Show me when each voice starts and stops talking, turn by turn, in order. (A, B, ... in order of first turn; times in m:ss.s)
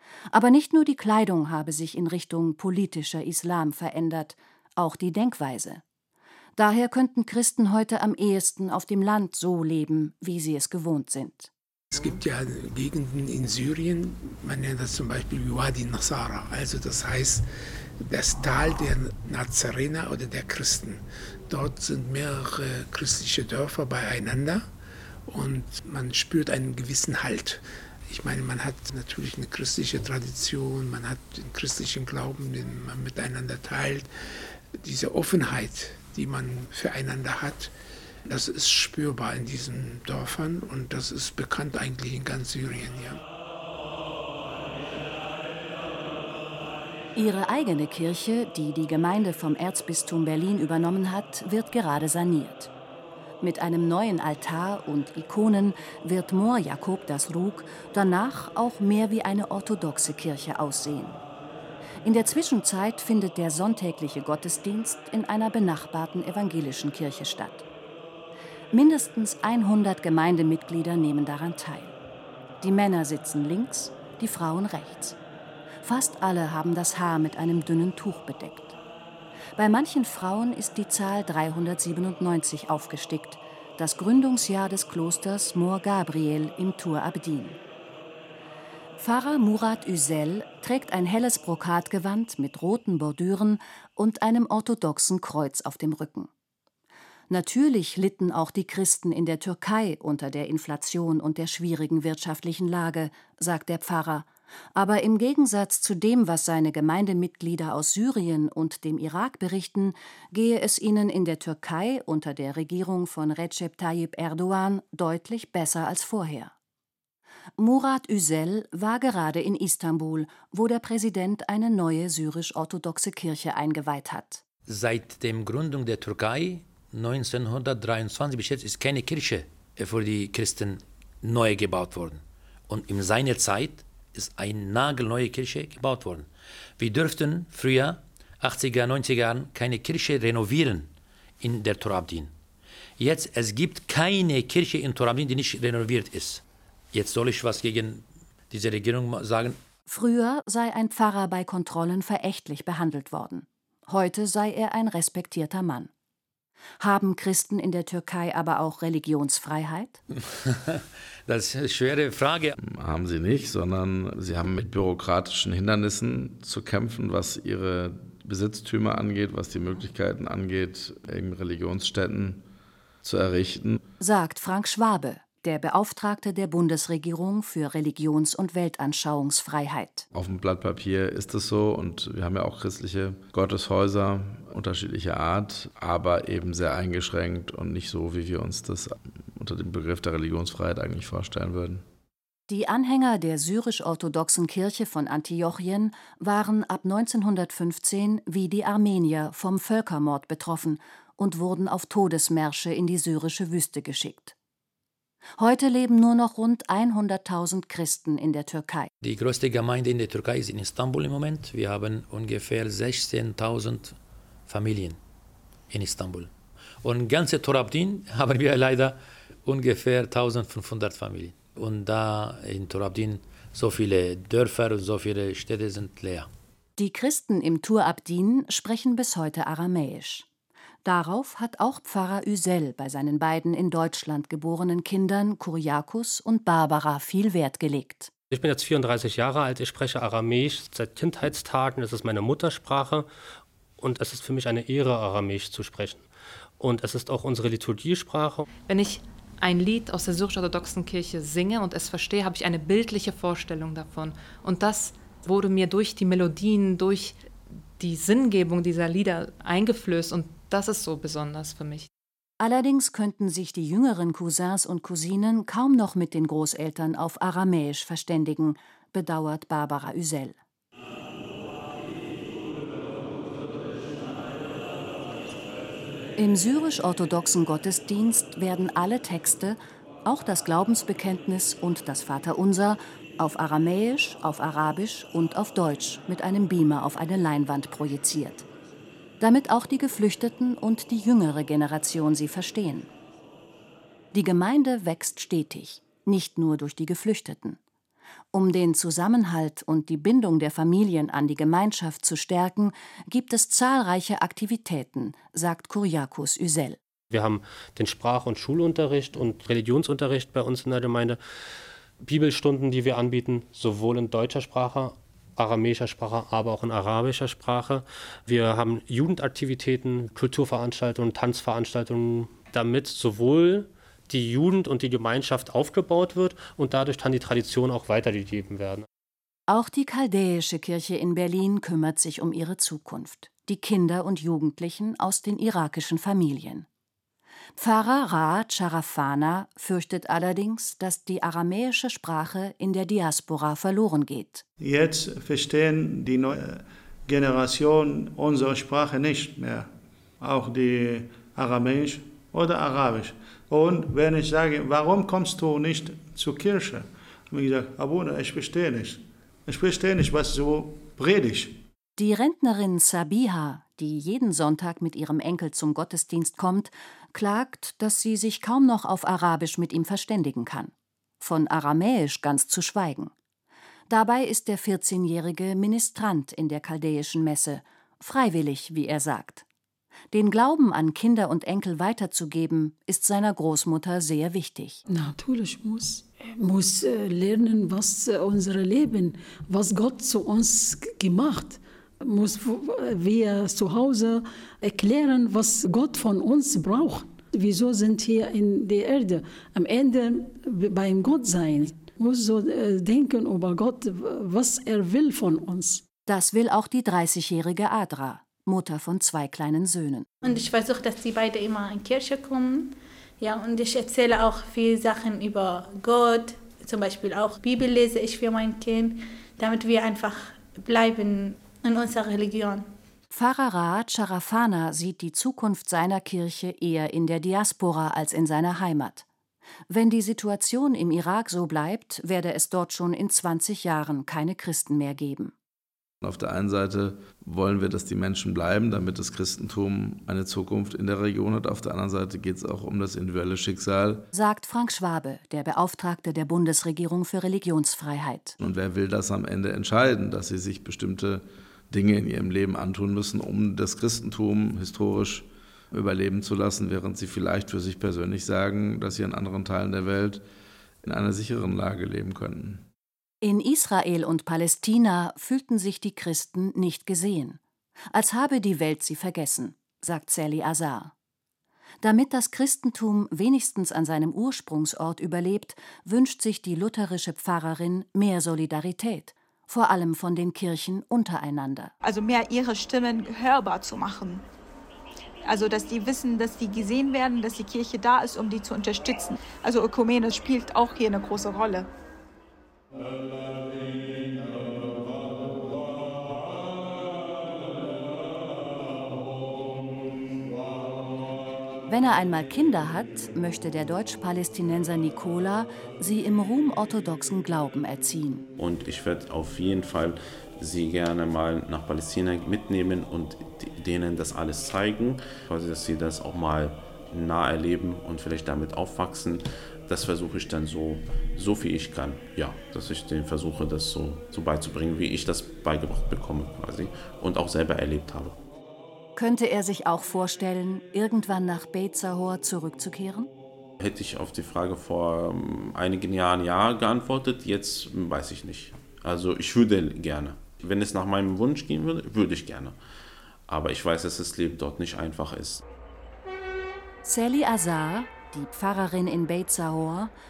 0:00.3-0:05.8 A
0:06.6-0:11.5 A
0:11.9-0:17.4 B
0:18.0-0:24.7 B
0:25.3-0:34.1 B
0:34.8-0:37.7 B
0:38.3-0:43.2 B
0:47.2-0:52.7 A
0:53.4-1:01.2 A
1:02.0-1:07.7 A
1:08.7-1:12.0 A
1:12.6-1:15.2 A
1:15.8-1:18.8 A
1:19.6-1:27.6 A
1:29.0-1:36.3 A
1:37.3-1:56.5 A
1:57.6-2:04.4 A
2:04.7-2:20.9 C
2:21.4-2:22.3 C
2:23.0-2:26.4 C
2:26.9-2:29.6 C
2:29.9-2:35.9 A
2:36.8-2:40.0 A
2:40.2-2:42.6 C
2:42.6-2:52.4 D
2:53.0-2:53.8 D
2:54.0-3:00.1 A
3:00.1-3:11.8 D
3:12.5-3:24.4 A
3:25.4-3:28.9 A
3:29.0-3:35.0 C
3:35.7-3:36.3 C
3:36.8-3:46.3 C
3:46.8-3:50.3 A
3:50.8-3:58.1 A
3:58.3-4:03.1 E
4:03.8-4:06.1 E
4:06.6-4:08.5 E
4:08.6-4:17.2 F
4:17.8-4:21.9 F
4:22.4-4:30.4 A
4:36.2-4:48.5 A
4:49.2-4:52.9 A
4:54.1-4:57.6 A
4:58.3-5:06.8 A
5:07.1-5:11.2 E
5:12.0-5:28.9 E
5:29.5-5:36.7 A
5:37.6-5:44.4 A
5:44.6-6:01.6 G
6:02.0-6:13.1 A
6:13.9-6:19.5 A
6:20.1-6:24.8 A
6:24.9-6:45.8 H
6:46.1-6:50.1 A
6:50.2-7:02.7 I
7:03.1-7:09.1 A
7:09.7-7:15.3 A
7:16.0-7:24.1 D
7:24.1-7:28.4 A
7:28.4-7:40.2 D
7:40.8-7:42.6 D
7:43.2-7:47.4 A
7:47.9-7:50.9 A
7:51.8-8:01.7 A
8:01.8-8:04.3 J
8:05.2-8:11.7 J
8:21.7-8:28.3 A
8:28.4-8:48.2 K
8:49.0-8:53.1 A
8:53.6-9:02.6 K
9:03.3-9:05.4 K
9:06.8-9:09.9 A